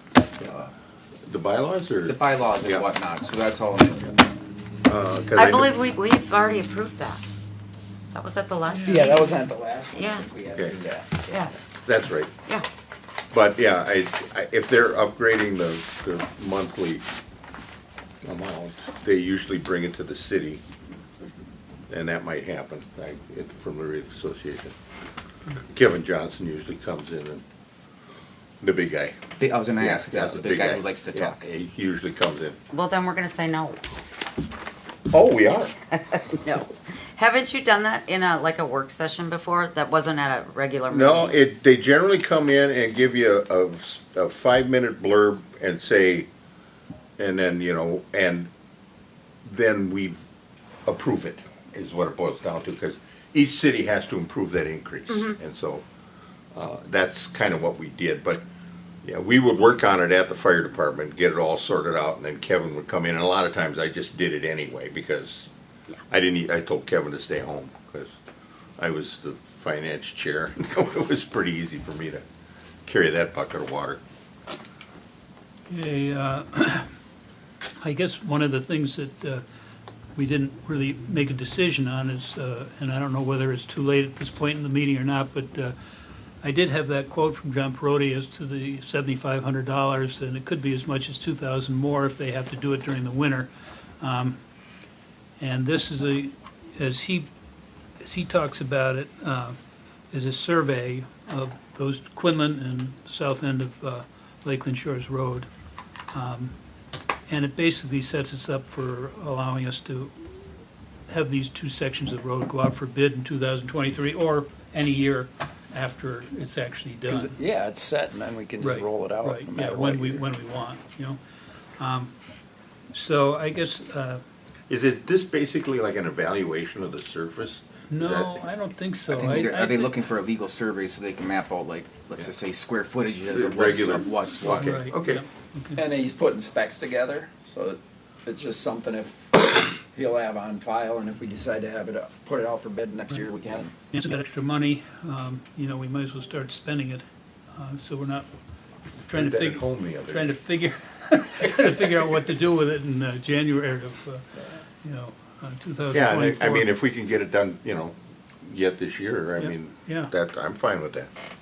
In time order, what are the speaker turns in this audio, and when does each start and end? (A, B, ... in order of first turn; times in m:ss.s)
0:00.4-0:00.7 A
0:01.2-0:02.9 B
0:02.0-0:04.2 A
0:04.9-0:05.7 B
0:05.3-0:07.2 C
0:08.1-0:09.3 C
0:08.7-0:09.5 D
0:08.9-0:11.3 E
0:09.9-0:10.2 C
0:11.3-0:11.5 C
0:11.7-0:12.3 B
0:13.3-0:17.0 B
0:18.2-0:20.6 B
0:21.9-0:24.8 B
0:25.6-0:27.4 B
0:28.6-0:29.1 B
0:29.4-0:31.4 A
0:29.8-0:32.6 B
0:32.7-0:33.8 C
0:35.1-0:35.8 B
0:36.0-0:41.4 C
0:40.9-0:46.3 B
0:47.2-0:48.5 B
0:49.4-0:50.2 B
0:50.8-0:55.8 B
0:55.1-0:55.3 C
0:56.5-0:58.4 B
0:59.0-1:05.5 B
1:06.1-1:08.1 B
1:08.8-1:12.2 B
1:12.9-1:14.0 B
1:15.7-1:16.9 D
1:17.8-1:19.4 D
1:20.2-1:25.8 D
1:26.4-1:34.4 D
1:35.4-1:37.3 D
1:38.0-1:39.6 D
1:40.1-1:45.5 D
1:46.1-1:46.6 D
1:47.3-1:50.5 D
1:51.1-1:57.3 D
1:57.1-2:00.2 E
1:58.6-2:01.2 D
2:01.8-2:02.1 D
2:02.9-2:04.2 D
2:04.7-2:08.5 B
2:07.9-2:10.0 D
2:09.1-2:14.7 A
2:13.3-2:15.2 B
2:14.4-2:15.8 D
2:15.8-2:23.7 E
2:23.9-2:28.3 D
2:29.0-2:36.7 D
2:29.1-2:30.3 B
2:35.9-2:41.1 B
2:39.4-2:40.1 D